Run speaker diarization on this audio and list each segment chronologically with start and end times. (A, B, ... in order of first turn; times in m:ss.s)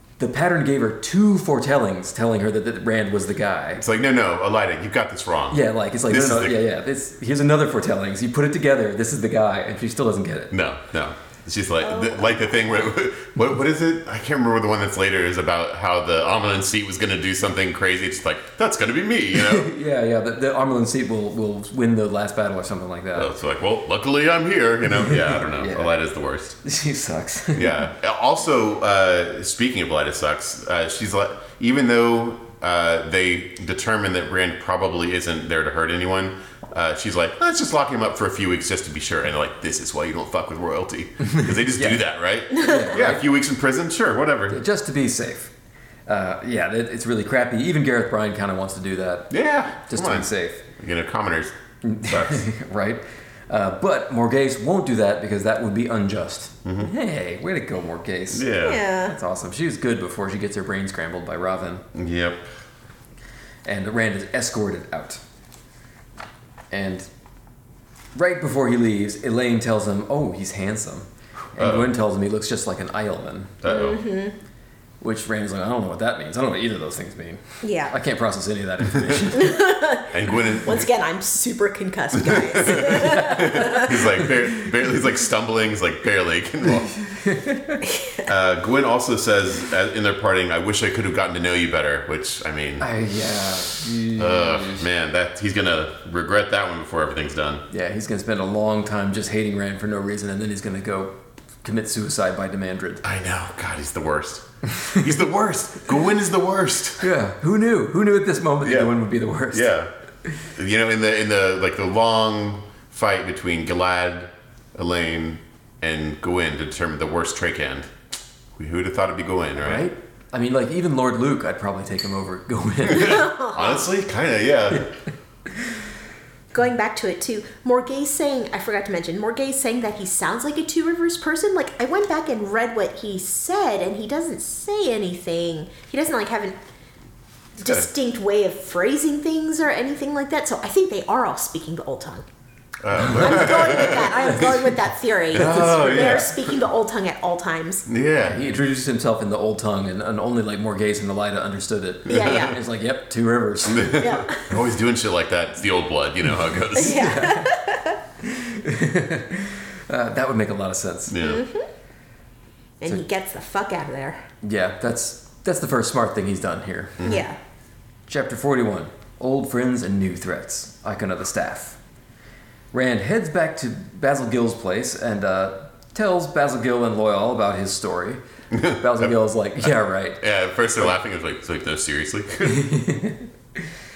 0:00.2-0:03.8 A
0:03.8-0:06.6 B
0:05.5-0:10.5 A
0:10.5-0:19.7 B
0:11.8-0:12.9 C
0:19.3-0:23.3 A
0:23.2-0:26.6 B
0:24.9-0:25.9 A
0:26.6-0:27.8 A
0:27.5-0:44.6 B
0:41.3-0:42.0 A
0:42.5-0:42.8 C
0:42.6-0:43.2 A
0:44.5-0:45.5 A
0:46.1-0:49.3 A
0:49.3-0:51.5 B
0:49.9-0:50.6 A
0:51.8-1:01.8 A
0:52.0-0:52.4 B
0:56.6-0:56.9 B
0:58.3-0:58.8 B
0:58.6-0:59.1 C
1:01.9-1:02.5 B
1:03.6-1:05.2 A
1:06.7-1:07.1 A
1:08.1-1:13.6 A
1:11.6-1:11.9 B
1:13.6-1:14.0 B
1:13.6-1:14.4 C
1:15.0-1:19.6 A
1:17.6-1:18.0 C
1:19.0-1:19.2 B
1:19.3-1:24.0 C
1:20.1-1:20.9 B
1:22.2-1:27.0 B
1:22.9-1:23.7 A
1:27.1-1:27.8 A
1:27.8-1:28.2 C
1:28.2-1:32.9 B
1:32.8-1:34.8 A
1:34.1-1:37.6 B
1:37.7-1:43.0 A
1:43.0-1:47.1 B
1:44.7-1:45.1 A
1:47.0-1:49.7 A
1:48.6-1:48.9 B
1:49.5-1:49.9 B
1:50.5-1:57.9 B
1:58.6-1:59.9 B
1:59.6-2:03.3 A
2:02.9-2:04.9 B
2:02.9-2:03.8 C
2:06.5-2:16.5 C
2:17.6-2:22.2 C
2:22.8-2:24.4 B
2:23.0-2:24.5 A
2:23.2-2:27.8 C
2:25.3-2:26.5 B
2:25.3-2:26.3 A
2:27.9-2:28.4 B
2:28.2-2:34.2 A
2:32.1-2:32.6 C
2:32.1-2:32.6 B
2:33.6-2:37.3 B
2:34.0-2:34.5 C
2:36.7-2:38.0 C
2:37.0-2:37.5 A
2:38.2-2:41.2 A
2:41.1-2:41.4 B
2:41.2-2:41.7 C
2:42.8-2:44.2 C
2:44.4-2:47.2 A
2:47.0-2:47.2 B
2:47.0-2:47.4 C
2:48.1-2:51.8 A
2:52.7-2:58.2 A
2:58.5-2:59.1 B
2:58.8-3:00.2 A
3:00.2-3:02.7 B
3:02.4-3:03.7 A